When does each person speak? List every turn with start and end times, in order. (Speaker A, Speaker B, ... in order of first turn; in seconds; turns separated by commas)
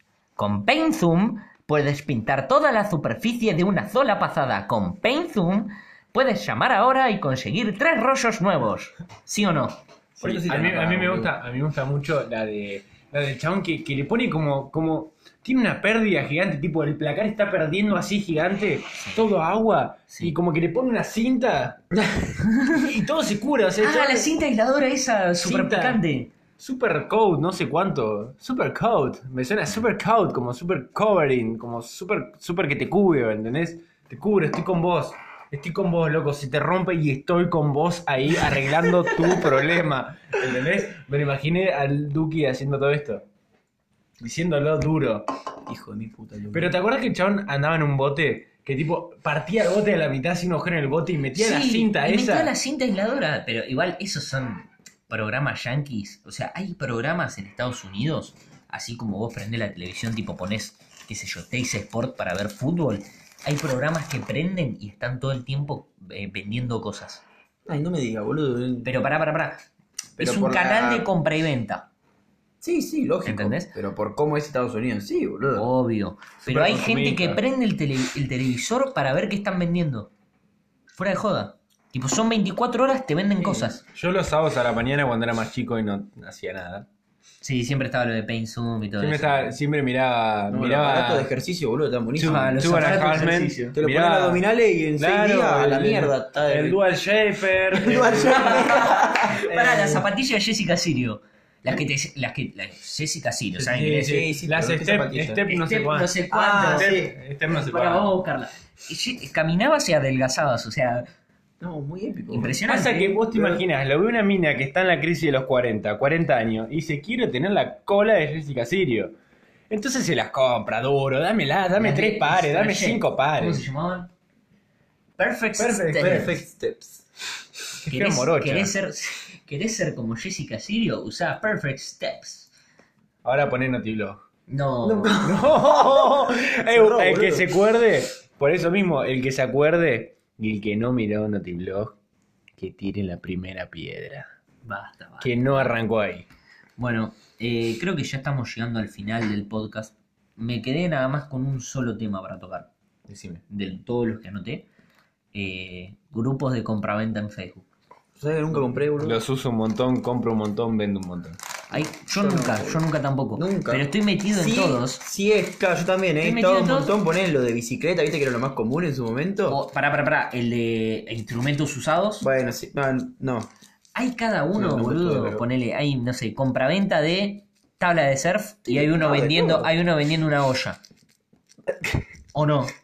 Speaker A: 0.4-9.8, Speaker B: 10.2-11.3, Speaker C: 10.2-21.8, Speaker B: 21.9-22.6, Speaker C: 22.6-24.4, Speaker A: 23.8-26.3, Speaker C: 25.4-26.0, Speaker C: 26.6-43.2, Speaker C: 44.2-45.3, Speaker B: 45.7-46.8, Speaker C: 46.5-52.5, Speaker A: 51.4-67.2, Speaker B: 67.7-68.9, Speaker A: 68.8-69.6, Speaker B: 70.2-71.1, Speaker A: 70.2-71.9, Speaker B: 72.6-75.7, Speaker A: 73.2-73.8, Speaker A: 75.5-80.1, Speaker C: 76.4-77.4, Speaker A: 81.0-83.8, Speaker B: 83.4-83.8, Speaker C: 83.9-86.9, Speaker A: 87.4-89.6, Speaker C: 89.0-91.3, Speaker B: 90.5-96.8, Speaker C: 92.2-94.4, Speaker A: 92.2-93.7, Speaker C: 95.0-100.0, Speaker B: 97.7-100.0, Speaker A: 98.3-104.2, Speaker B: 103.6-105.4, Speaker C: 103.8-108.2, Speaker A: 105.5-106.9, Speaker B: 106.3-107.1, Speaker A: 107.5-111.1, Speaker B: 111.6-112.6, Speaker A: 112.3-113.2, Speaker C: 112.7-119.2, Speaker B: 113.3-113.6, Speaker C: 119.7-123.7, Speaker A: 121.8-124.1, Speaker A: 125.2-126.4, Speaker C: 125.6-126.5, Speaker B: 126.0-127.0, Speaker C: 127.8-128.7, Speaker A: 127.9-132.5, Speaker C: 133.2-134.2, Speaker A: 134.5-135.2, Speaker B: 134.8-137.5, Speaker C: 135.2-142.0, Speaker C: 142.6-144.3, Speaker A: 144.6-145.8, Speaker C: 145.2-146.3, Speaker A: 146.8-152.7, Speaker C: 153.1-153.4, Speaker A: 153.5-154.7, Speaker A: 155.3-157.7, Speaker B: 158.2-159.2, Speaker C: 158.5-161.4, Speaker A: 161.7-165.0, Speaker B: 162.1-162.8, Speaker B: 163.4-169.6, Speaker A: 166.2-167.0, Speaker A: 169.5-172.3, Speaker B: 172.2-173.5, Speaker A: 173.9-180.8, Speaker B: 174.5-175.5, Speaker B: 178.7-179.7, Speaker A: 182.3-182.7